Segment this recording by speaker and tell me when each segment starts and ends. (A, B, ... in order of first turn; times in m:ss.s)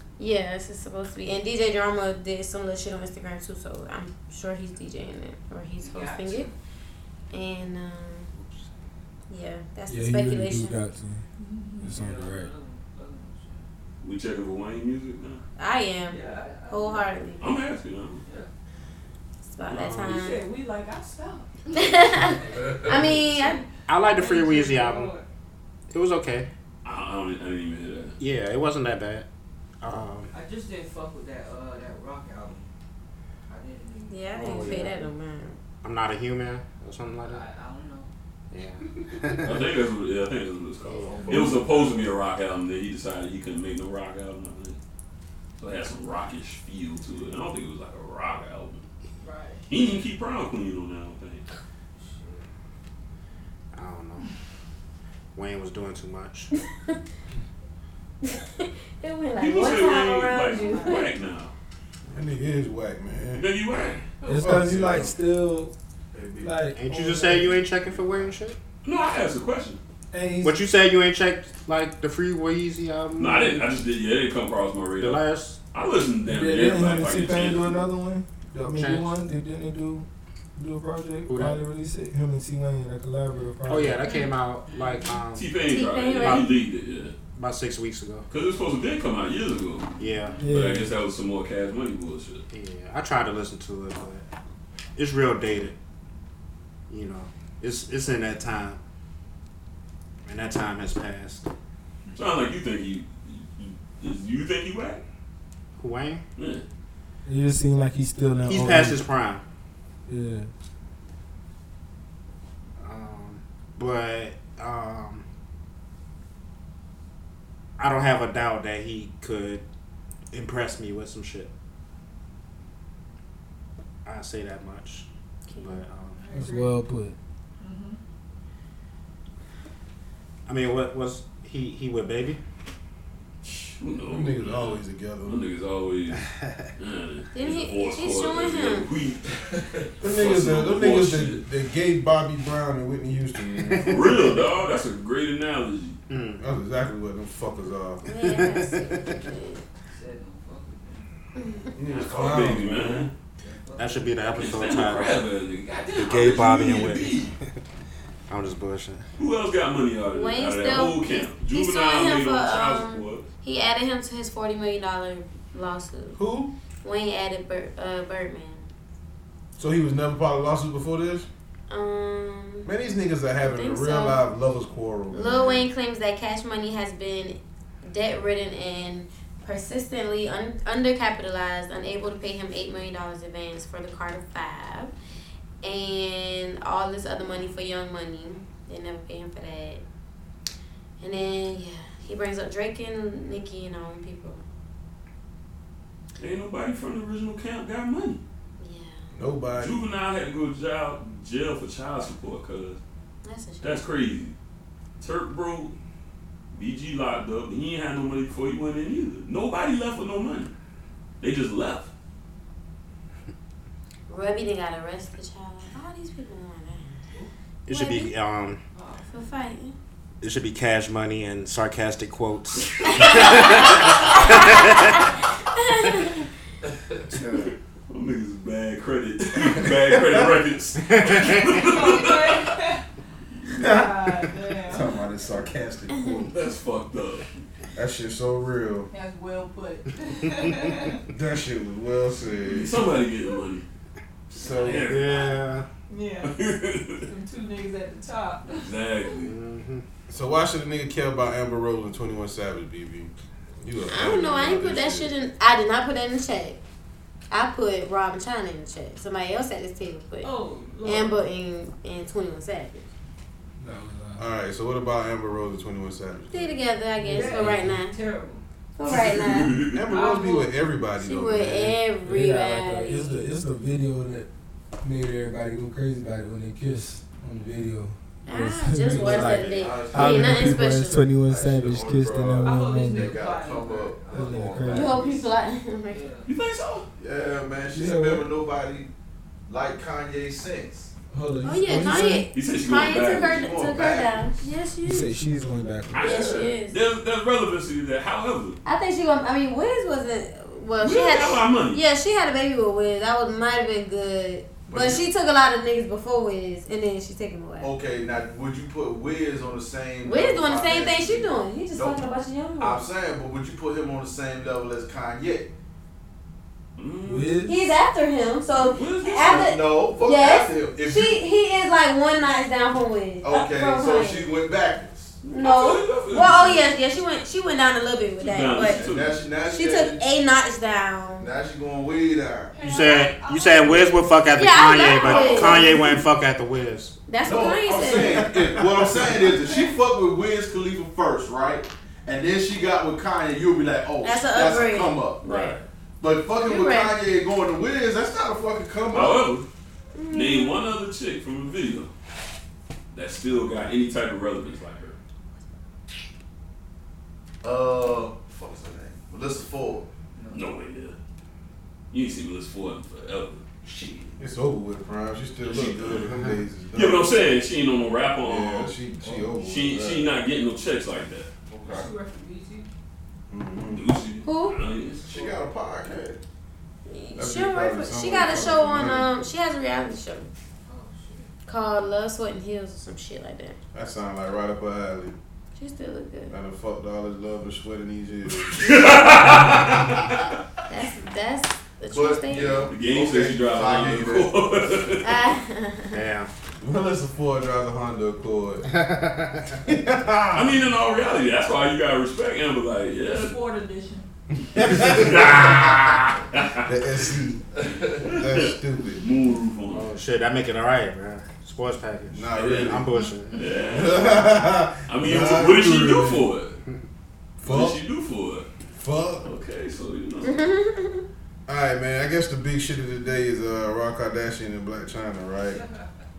0:00.2-0:06.5 A
0:05.8-0:06.5 B
0:07.3-0:08.3 A
0:09.3-0:10.8 A
0:09.9-0:11.2 C
0:11.4-0:11.9 D
0:11.8-0:12.5 C
0:11.8-0:13.7 B
0:14.0-0:15.4 E
0:15.6-0:17.5 A
0:16.1-0:17.2 B
0:17.4-0:18.2 E
0:19.5-0:20.4 A
0:19.8-0:20.1 F
0:20.0-0:21.5 D
0:21.7-0:23.6 A
0:22.3-0:23.6 B
0:23.9-0:25.1 F
0:24.2-0:25.2 D
0:25.9-0:26.5 F
0:26.8-0:28.2 E
0:28.2-0:29.3 F
0:29.8-0:30.3 F
0:30.3-0:32.7 B
0:33.5-0:34.9 B
0:34.1-0:35.6 A
0:34.4-0:35.1 F
0:35.8-0:37.4 F
0:37.2-0:38.1 B
0:38.5-0:39.6 F
0:39.4-0:44.8 E
0:40.9-0:41.6 F
0:41.1-0:41.9 G
0:41.2-0:41.6 B
0:45.6-0:48.9 E
0:49.2-0:49.6 D
0:49.7-0:51.4 E
0:52.0-0:52.4 B
0:53.7-0:54.3 F
0:55.4-0:56.5 F
0:58.2-1:01.1 A
0:59.4-1:01.5 E
1:00.6-1:01.1 D
1:02.1-1:03.5 H
1:03.4-1:04.0 E
1:04.2-1:05.7 C
1:04.3-1:05.2 H
1:06.1-1:06.6 G
1:06.4-1:07.6 C
1:06.8-1:08.6 F
1:07.9-1:08.3 G
1:08.8-1:09.8 E
1:10.1-1:10.6 C
1:10.4-1:13.6 F
1:13.2-1:17.8 E
1:15.0-1:15.6 F
1:16.3-1:24.0 C
1:18.7-1:19.1 F
1:21.3-1:21.6 F
1:23.7-1:25.5 F
1:24.7-1:25.1 B
1:25.4-1:27.2 E
1:25.7-1:26.5 A
1:26.2-1:26.5 F
1:27.4-1:28.3 F
1:28.3-1:29.9 E
1:30.0-1:30.4 F
1:30.4-1:30.9 C
1:30.5-1:32.4 E
1:32.5-1:34.2 F
1:35.0-1:35.8 F
1:36.9-1:38.8 F
1:40.3-1:41.5 F
1:42.1-1:45.0 E
1:45.8-1:46.2 F
1:46.4-1:46.6 E
1:47.2-1:49.0 C
1:48.5-1:49.4 F
1:50.1-1:50.5 C
1:52.8-1:55.2 F
1:57.8-1:59.6 F
2:00.3-2:01.5 F
2:04.0-2:05.1 F
2:05.5-2:05.8 A
2:05.6-2:06.2 F
2:06.2-2:06.8 D
2:06.3-2:07.2 C
2:07.6-2:08.0 D
2:10.5-2:12.4 F
2:13.4-2:19.4 E
2:14.0-2:15.4 H
2:17.3-2:18.9 A
2:20.0-2:21.4 E
2:20.0-2:24.4 H
2:23.6-2:24.0 F
2:23.9-2:26.0 E
2:26.1-2:26.4 F
2:26.4-2:28.1 H
2:28.0-2:29.6 A
2:28.2-2:29.2 F
2:29.9-2:31.1 B
2:31.4-2:31.8 A
2:31.8-2:33.1 H
2:31.9-2:33.1 E
2:33.4-2:34.1 B
2:33.8-2:35.2 F
2:34.4-2:37.4 E
2:36.0-2:37.2 F
2:38.3-2:39.0 F
2:39.2-2:43.3 E
2:40.1-2:46.2 A
2:46.2-2:46.5 H
2:46.8-2:48.7 A
2:49.6-2:51.3 H
2:51.7-2:52.7 A
2:52.6-2:55.7 H
2:53.4-2:54.2 A
2:55.1-3:04.9 A
3:05.6-3:09.8 A
3:11.0-3:14.4 A
3:16.2-3:18.2 E
3:18.6-3:19.1 A
3:19.1-3:19.8 H
3:19.6-3:22.8 E
3:23.2-3:23.8 A
3:23.6-3:24.4 E
3:25.0-3:25.8 E
3:26.5-3:30.5 E
3:31.2-3:31.9 E
3:34.1-3:36.9 A
3:37.7-3:38.6 F
3:37.7-3:38.1 A
3:38.7-3:39.2 B
3:39.1-3:39.8 A
3:40.2-3:45.0 F
3:42.9-3:44.7 A
3:43.2-3:43.8 E
3:45.5-3:46.3 A
3:47.1-3:47.5 F
3:47.9-3:52.6 E
3:49.6-3:50.3 H
3:50.9-3:51.5 F
3:51.5-3:52.8 D
3:53.6-3:55.0 D
3:53.6-3:53.9 H
3:54.6-3:56.3 H
3:56.3-3:57.3 E
3:57.7-3:58.9 H
3:58.9-4:01.0 D
4:01.1-4:02.9 H
4:02.4-4:03.6 E
4:04.3-4:05.0 H
4:04.4-4:05.4 E
4:04.6-4:05.7 F
4:05.9-4:06.4 D
4:06.2-4:07.1 E
4:07.0-4:08.7 D
4:08.5-4:09.3 E
4:09.2-4:09.8 F
4:10.1-4:15.1 H
4:13.9-4:16.6 A
4:17.3-4:20.3 A
4:20.2-4:21.1 D
4:20.3-4:21.1 B
4:20.8-4:22.9 A
4:23.6-4:24.2 C
4:24.2-4:26.5 H
4:26.3-4:28.0 A
4:27.0-4:27.8 C
4:27.1-4:28.4 B
4:28.8-4:29.6 A
4:28.9-4:29.8 E
4:29.7-4:31.8 H
4:29.9-4:30.6 D
4:31.0-4:33.2 A
4:32.0-4:34.3 C
4:34.8-4:43.2 C
4:38.3-4:41.1 A
4:39.0-4:45.2 G
4:42.4-4:45.2 B
4:44.1-4:44.9 C
4:44.7-4:46.1 A
4:45.9-4:46.3 B
4:46.3-4:46.9 E
4:47.0-4:48.9 G
4:47.7-4:48.3 C
4:49.5-4:50.9 G
4:51.1-4:52.3 C
4:51.4-4:55.1 A
4:52.3-4:53.5 E
4:52.9-4:54.3 G
4:54.8-4:56.0 C
4:55.9-4:58.6 E
4:56.0-4:56.6 G
4:56.0-4:56.8 A
4:58.6-5:07.7 A
5:00.8-5:01.8 E
5:04.7-5:05.1 G
5:07.6-5:12.0 G
5:10.0-5:12.8 A
5:12.6-5:15.5 G
5:16.8-5:17.5 E
5:17.0-5:17.8 C
5:17.4-5:24.3 A
5:18.6-5:19.5 E
5:19.1-5:21.2 G
5:23.2-5:25.2 G
5:25.2-5:28.8 A
5:25.3-5:26.7 E
5:28.2-5:29.2 E
5:28.6-5:30.0 G
5:29.4-5:31.3 A
5:31.2-5:32.5 G
5:32.5-5:34.1 D
5:32.6-5:37.0 F
5:34.4-5:35.8 A
5:35.0-5:35.6 G
5:37.1-5:38.4 A
5:37.2-5:49.3 G
5:39.3-5:39.8 D
5:44.0-5:45.6 A
5:46.4-5:46.9 A
5:48.9-5:49.5 E
5:50.0-5:50.6 A
5:50.1-5:51.9 E
5:52.9-5:55.0 E
5:57.4-5:59.9 G
6:00.2-6:00.5 B
6:00.3-6:01.0 E
6:01.9-6:03.4 E
6:03.6-6:04.1 G
6:04.2-6:07.2 H
6:05.4-6:06.1 E
6:06.7-6:08.8 E
6:08.2-6:10.1 H
6:09.0-6:09.4 G
6:09.4-6:11.3 E
6:11.5-6:11.9 G
6:11.6-6:12.7 B
6:13.3-6:13.9 H
6:13.7-6:15.2 E
6:14.2-6:14.6 A
6:15.1-6:16.2 G
6:15.1-6:15.4 B
6:16.9-6:20.3 A
6:17.2-6:19.1 H
6:20.7-6:21.3 B
6:21.5-6:23.6 A
6:23.7-6:25.2 H
6:25.6-6:26.3 A
6:26.3-6:28.9 H
6:28.5-6:30.2 E
6:30.7-6:32.7 A
6:31.9-6:34.5 G
6:32.7-6:35.2 E
6:35.0-6:36.0 A
6:35.9-6:36.3 F
6:36.6-6:38.7 H
6:38.7-6:39.6 F
6:39.6-6:40.7 H
6:40.3-6:43.4 E
6:43.1-6:44.1 D
6:44.4-6:45.5 H
6:44.6-6:46.1 F
6:44.6-6:46.7 E
6:46.6-6:47.4 H
6:47.6-6:48.0 G
6:48.0-6:49.9 E
6:48.0-6:49.0 H
6:49.7-6:53.5 F
6:52.1-6:52.9 H
6:53.3-6:54.3 E
6:53.7-6:56.3 H
6:54.9-6:56.6 E
6:57.4-6:57.8 H
6:57.4-6:58.5 E
6:58.7-6:59.3 H
6:59.2-7:00.4 E
7:00.2-7:01.0 A
7:01.5-7:05.6 H
7:05.5-7:05.9 B